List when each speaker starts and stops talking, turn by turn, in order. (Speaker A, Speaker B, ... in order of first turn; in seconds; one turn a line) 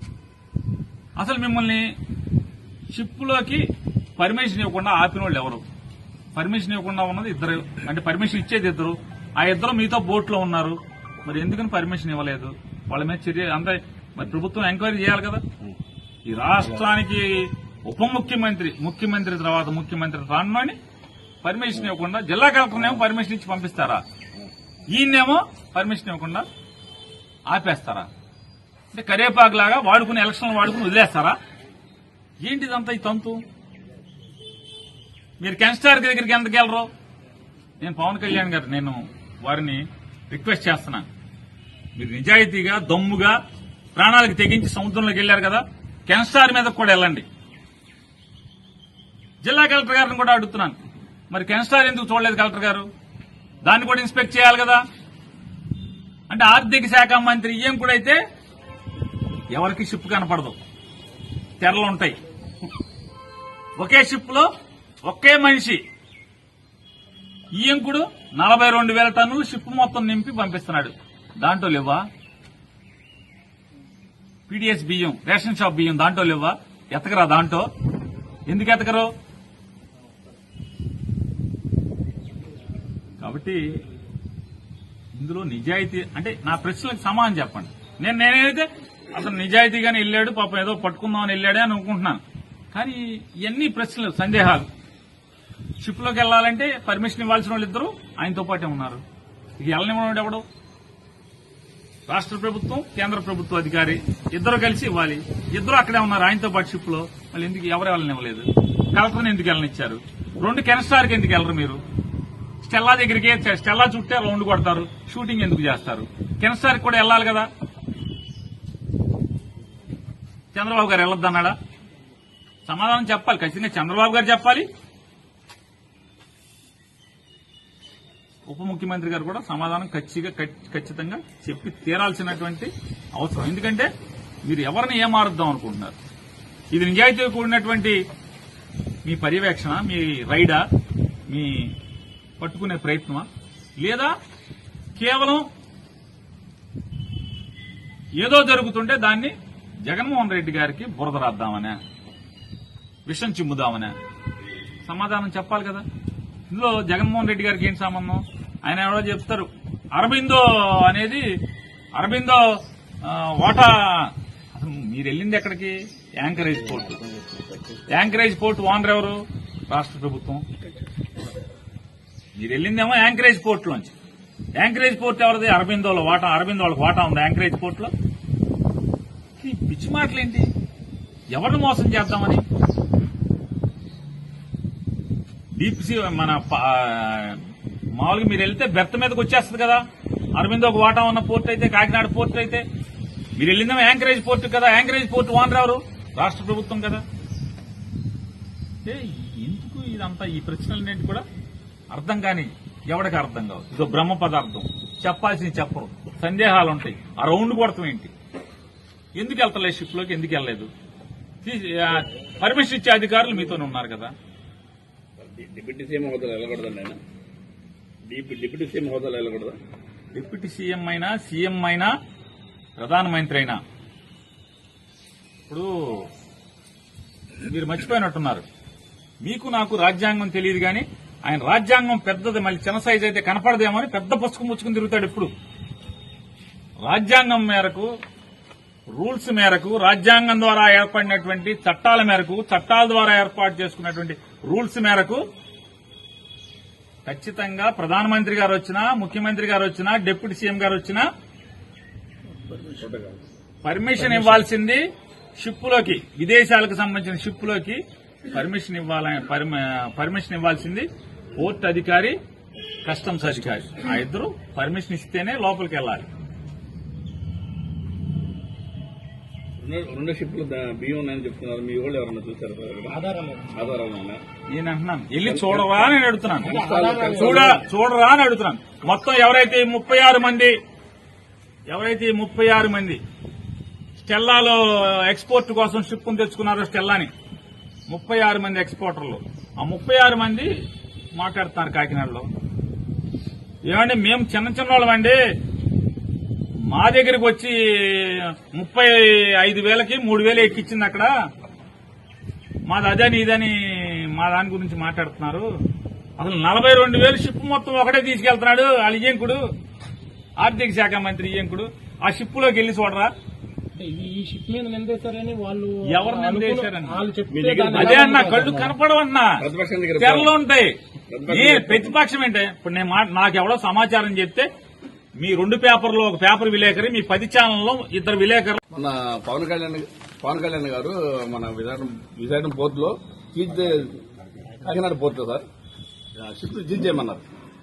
Speaker A: 1.2-1.9
Speaker A: 2.9-3.7
Speaker A: 4.2-5.6
Speaker A: 6.3-15.4
Speaker A: 16.3-20.8
Speaker A: 21.4-24.0
Speaker A: 24.9-26.5
Speaker A: 27.5-28.1
Speaker A: 28.9-31.4
Speaker A: 32.4-33.4
Speaker A: 35.4-36.9
Speaker A: 37.8-41.1
Speaker A: 42.0-43.4
Speaker A: 44.0-47.3
Speaker A: 49.4-50.8
Speaker A: 51.3-52.9
Speaker A: 53.6-54.8
Speaker A: 56.3-58.2
Speaker A: 59.5-60.6
Speaker A: 61.6-62.2
Speaker A: 63.8-64.5
Speaker A: 65.0-65.8
Speaker A: 67.6-72.1
Speaker A: 74.5-77.7
Speaker A: 78.5-79.1
Speaker A: 83.2-83.7
Speaker A: 85.2-92.2
Speaker A: 92.7-94.7
Speaker A: 95.8-99.0
Speaker A: 99.6-100.5
Speaker A: 102.1-111.8
Speaker A: 112.6-117.5
Speaker A: 120.5-121.6
Speaker A: 122.7-124.7
Speaker A: 128.5-133.9
Speaker A: 134.4-136.0
Speaker A: 136.7-138.0
Speaker A: 139.1-140.6
Speaker A: 141.3-141.7
Speaker A: 142.4-143.3
Speaker A: 143.8-144.1
Speaker A: 145.0-145.5
Speaker A: 148.2-149.3
Speaker A: 149.9-151.8
Speaker A: 153.1-153.9
Speaker A: 154.8-155.8
Speaker A: 156.5-161.3
Speaker A: 161.9-167.0
Speaker B: 166.9-167.4
Speaker A: 167.9-170.5
Speaker A: 172.4-173.9
Speaker A: 174.6-177.9
Speaker A: 179.4-180.5
Speaker A: 181.3-182.4
Speaker A: 185.6-187.5
Speaker A: 188.0-189.8
Speaker A: 190.3-192.6
Speaker A: 193.4-197.0
Speaker A: 198.8-201.2
Speaker A: 201.9-208.1
Speaker A: 209.2-210.7
Speaker A: 211.4-214.1
Speaker B: 215.2-217.0
Speaker B: 218.1-219.6
Speaker A: 220.1-221.9
Speaker A: 222.8-223.6
Speaker A: 225.5-226.1
Speaker A: 227.4-228.4
Speaker A: 229.2-235.3
Speaker A: 236.8-237.9
Speaker A: 239.0-245.2
Speaker A: 247.1-251.1
Speaker B: 252.5-253.2
Speaker A: 253.6-254.9
Speaker A: 255.4-262.2
Speaker A: 262.8-266.1
Speaker B: 269.6-274.2
Speaker C: 272.9-273.6
Speaker A: 274.5-276.6
Speaker B: 275.2-277.6
Speaker C: 276.4-277.5
Speaker A: 277.1-280.6
Speaker A: 281.7-283.0
Speaker A: 284.0-287.1
Speaker A: 287.9-290.6
Speaker A: 291.2-292.3
Speaker A: 293.7-295.2
Speaker A: 296.7-301.1
Speaker A: 302.7-305.5
Speaker A: 306.2-309.4
Speaker A: 310.4-313.1
Speaker C: 313.8-318.7
Speaker A: 315.9-317.1
Speaker B: 317.3-318.7
Speaker A: 317.7-319.4
Speaker B: 319.4-320.3
Speaker A: 320.0-320.8
Speaker B: 321.1-322.0
Speaker A: 321.3-324.5
Speaker A: 325.2-328.6
Speaker B: 328.7-334.0
Speaker B: 334.6-335.4
Speaker B: 336.2-337.2